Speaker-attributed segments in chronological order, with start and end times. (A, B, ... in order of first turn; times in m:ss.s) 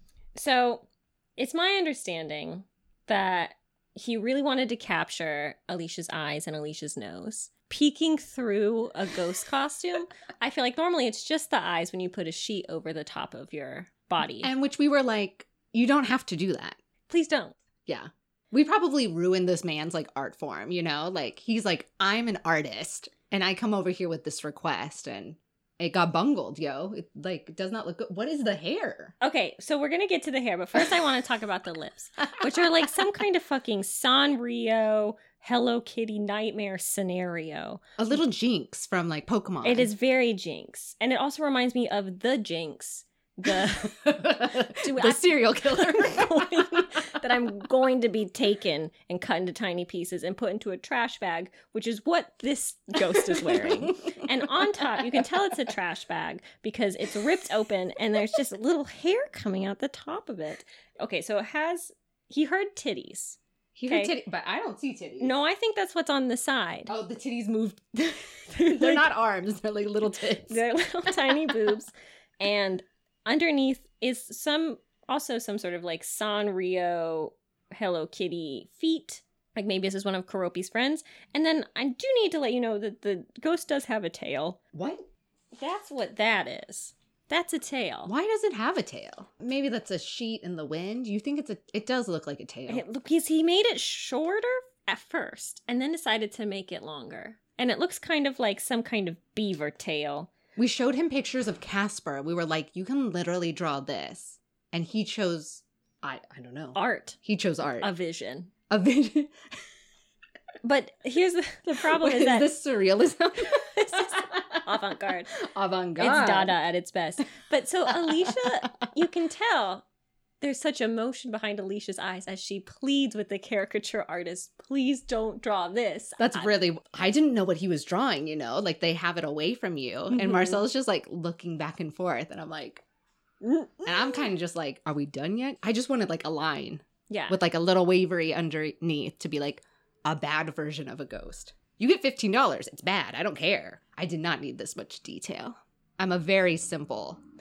0:00.3-0:14.5 A
0:14.4-0:16.8 B
0:17.1-0:17.6 A
0:17.9-0:29.1 B
0:29.2-0:37.8 A
0:32.4-0:32.8 B
0:38.0-0:39.9 B
0:39.6-1:04.1 A
0:43.5-0:47.0 B
0:53.1-0:54.2 B
0:55.0-0:55.2 B
1:03.7-1:05.3 B
1:05.2-1:06.9 A
1:06.9-1:10.6 B
1:08.5-1:09.1 A
1:10.5-1:24.6 A
1:11.2-1:11.6 B
1:24.7-1:25.0 B
1:25.6-1:28.1 A
1:28.0-1:32.8 B
1:32.7-1:40.3 A
1:40.6-1:47.9 B
1:46.7-1:47.2 A
1:47.8-1:48.5 A
1:48.7-1:49.3 B
1:50.6-1:52.5 A
1:51.8-1:54.6 B
1:53.4-1:55.4 A
1:55.4-1:56.5 B
1:56.0-1:59.8 A
1:57.9-1:58.5 B
2:00.4-2:06.6 A
2:06.2-2:12.8 B
2:10.1-2:10.6 A
2:13.4-2:14.3 A
2:13.8-2:27.2 B
2:17.1-2:17.4 A